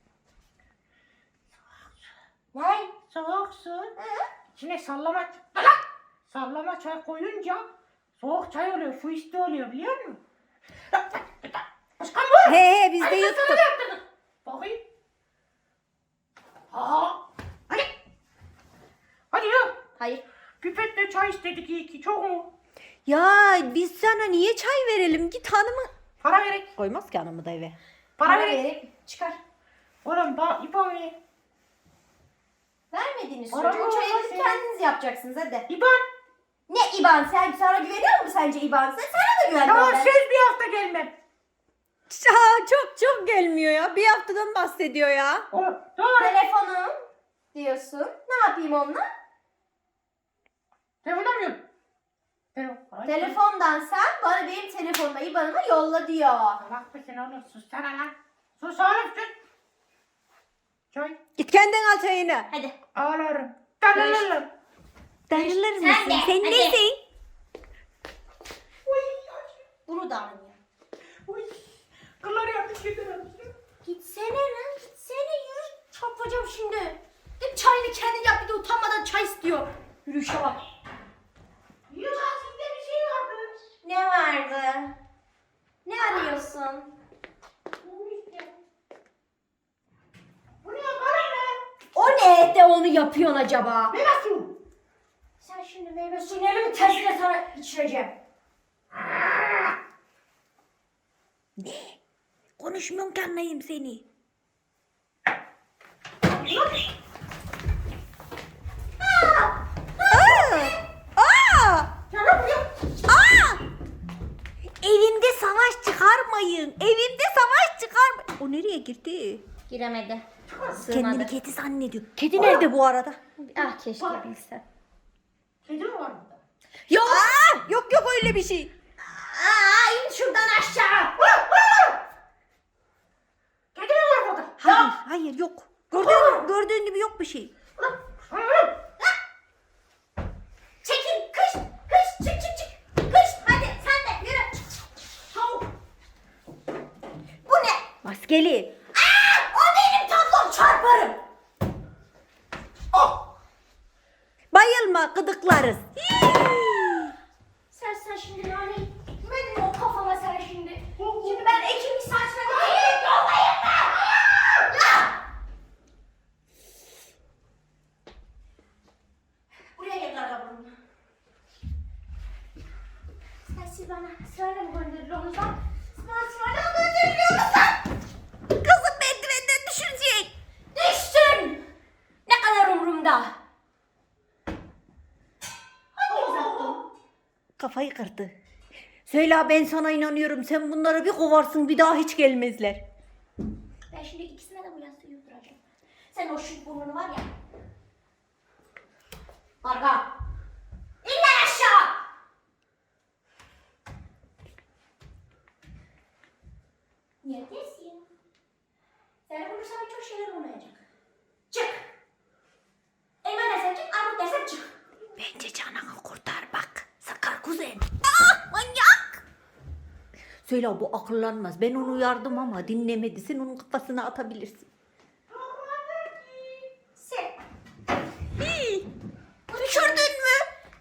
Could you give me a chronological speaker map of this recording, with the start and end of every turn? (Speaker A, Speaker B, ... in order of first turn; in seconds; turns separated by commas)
Speaker A: 2.5-2.9, Speaker B: 3.1-3.9, Speaker A: 4.0-4.3, Speaker B: 4.5-7.7, Speaker B: 8.2-10.2, Speaker B: 10.9-14.8, Speaker C: 12.4-13.6, Speaker B: 16.7-17.9, Speaker B: 19.3-19.7, Speaker A: 20.0-20.2, Speaker B: 20.6-22.5, Speaker C: 23.1-25.9, Speaker B: 26.2-26.7, Speaker C: 26.8-27.8, Speaker B: 28.2-28.6, Speaker A: 28.2-29.4, Speaker B: 30.0-31.1, Speaker A: 32.9-35.6, Speaker B: 33.5-34.6, Speaker B: 35.7-36.0, Speaker A: 36.7-40.1, Speaker B: 39.7-41.1, Speaker C: 42.1-45.5, Speaker B: 45.5-46.4, Speaker A: 46.2-46.9, Speaker A: 47.5-49.0, Speaker B: 51.0-51.6, Speaker B: 52.5-53.4, Speaker A: 53.0-56.6, Speaker B: 56.6-59.3, Speaker C: 61.4-62.5, Speaker B: 63.0-64.5, Speaker C: 63.9-64.3, Speaker C: 65.3-67.0, Speaker A: 65.3-66.8, Speaker B: 68.8-69.6, Speaker A: 69.8-70.6, Speaker B: 71.3-71.7, Speaker B: 72.2-73.5, Speaker A: 73.8-80.6, Speaker B: 81.9-83.6, Speaker A: 83.8-84.9, Speaker A: 85.8-86.9, Speaker B: 87.8-88.5, Speaker B: 90.6-91.6, Speaker A: 91.9-94.0, Speaker B: 93.9-94.5, Speaker A: 95.4-98.1, Speaker C: 101.6-102.0, Speaker C: 102.6-104.0, Speaker A: 109.0-110.8, Speaker C: 110.1-111.9, Speaker B: 112.1-112.7, Speaker C: 113.0-113.6, Speaker C: 114.8-119.4, Speaker A: 119.7-121.3, Speaker B: 120.5-120.8, Speaker C: 120.8-123.2, Speaker A: 123.4-124.6, Speaker B: 123.5-124.2, Speaker B: 125.6-126.4, Speaker A: 126.9-127.5, Speaker C: 126.9-128.7, Speaker A: 129.0-131.2, Speaker B: 131.2-131.9, Speaker B: 133.7-134.9, Speaker C: 134.6-137.5, Speaker B: 136.0-136.3, Speaker B: 137.8-138.7, Speaker A: 140.8-144.6, Speaker A: 145.3-145.7, Speaker A: 147.4-147.8, Speaker C: 148.0-148.7, Speaker A: 148.9-151.2, Speaker C: 154.5-157.1, Speaker A: 157.7-165.1, Speaker B: 161.0-161.6, Speaker A: 169.7-170.8, Speaker A: 173.5-177.8, Speaker C: 178.6-180.3, Speaker A: 180.7-181.6, Speaker A: 182.2-183.3, Speaker A: 185.9-186.8, Speaker B: 186.1-186.8, Speaker C: 187.6-188.3, Speaker C: 189.1-192.8, Speaker A: 193.9-195.6, Speaker A: 196.1-197.3, Speaker A: 199.6-200.1, Speaker A: 201.0-201.9, Speaker A: 207.2-208.0, Speaker A: 209.3-210.8, Speaker A: 211.5-211.8, Speaker A: 213.2-214.7, Speaker C: 215.2-217.9, Speaker A: 218.1-219.1, Speaker C: 220.4-224.7, Speaker B: 225.3-226.7, Speaker A: 226.9-227.3, Speaker C: 228.4-228.9, Speaker A: 229.5-230.1, Speaker C: 229.5-230.4